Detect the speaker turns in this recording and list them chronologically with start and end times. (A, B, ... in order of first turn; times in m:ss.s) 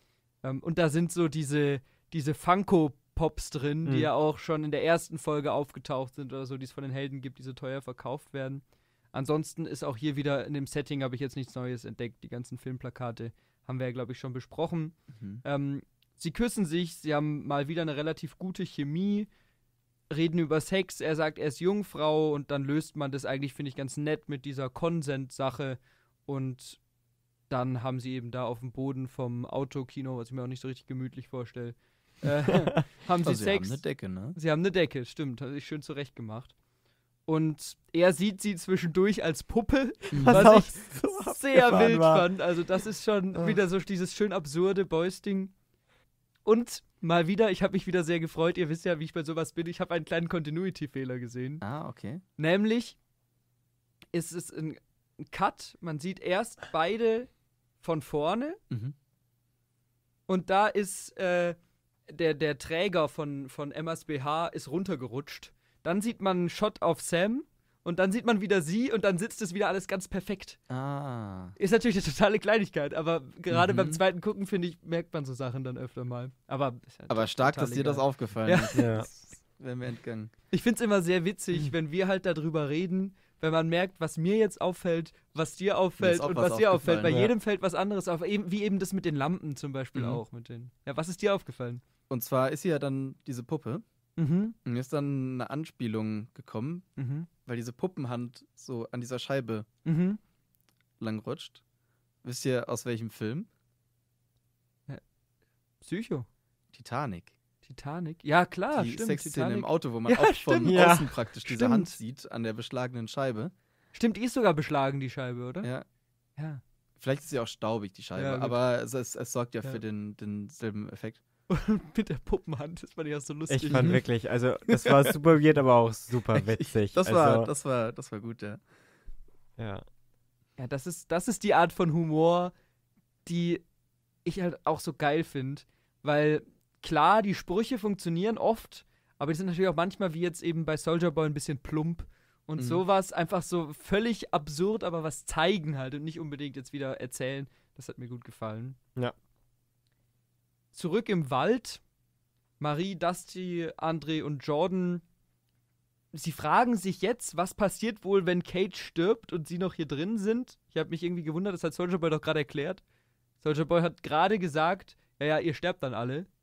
0:00.4-0:19.3 A
0:03.9-0:04.1 B
0:15.2-0:15.4 C
0:20.1-0:26.8 A
0:27.5-0:33.8 A
0:33.2-0:34.4 C
0:34.3-0:36.5 A
0:37.3-0:45.5 A
0:40.1-0:40.5 C
0:40.2-0:42.3 B
0:46.4-0:51.6 A
0:51.6-0:52.2 C
0:52.4-0:53.0 A
0:54.1-0:58.6 A
0:58.7-0:59.0 C
1:00.3-1:01.6 A
1:02.1-1:10.6 A
1:10.7-1:11.6 C
1:11.6-1:18.8 A
1:13.5-1:14.0 C
1:17.1-1:20.3 C
1:18.7-1:19.1 B
1:20.5-1:31.8 A
1:26.0-1:27.2 C
1:27.1-1:27.3 B
1:30.0-1:30.2 C
1:32.1-1:33.8 C
1:34.2-1:34.6 A
1:34.6-1:36.9 C
1:37.0-1:37.3 A
1:37.5-1:39.7 C
1:39.8-1:40.2 A
1:41.0-1:41.6 C
1:42.2-1:43.5 C
1:45.8-1:46.3 A
1:46.7-1:47.3 C
1:47.6-1:52.0 A
1:48.7-1:53.5 C
1:50.7-1:51.1 B
1:53.9-1:55.7 A
1:57.0-2:01.2 C
1:58.2-1:58.6 A
2:01.5-2:04.0 A
2:03.5-2:07.5 B
2:03.7-2:04.0 C
2:04.7-2:05.0 C
2:06.3-2:08.6 C
2:09.6-2:09.8 B
2:10.6-2:12.5 A
2:13.2-2:13.6 A
2:14.2-2:28.8 A
2:22.6-2:22.8 C
2:30.7-2:31.8 A
2:32.6-2:35.0 A
2:36.1-2:42.8 A
2:43.4-2:46.3 A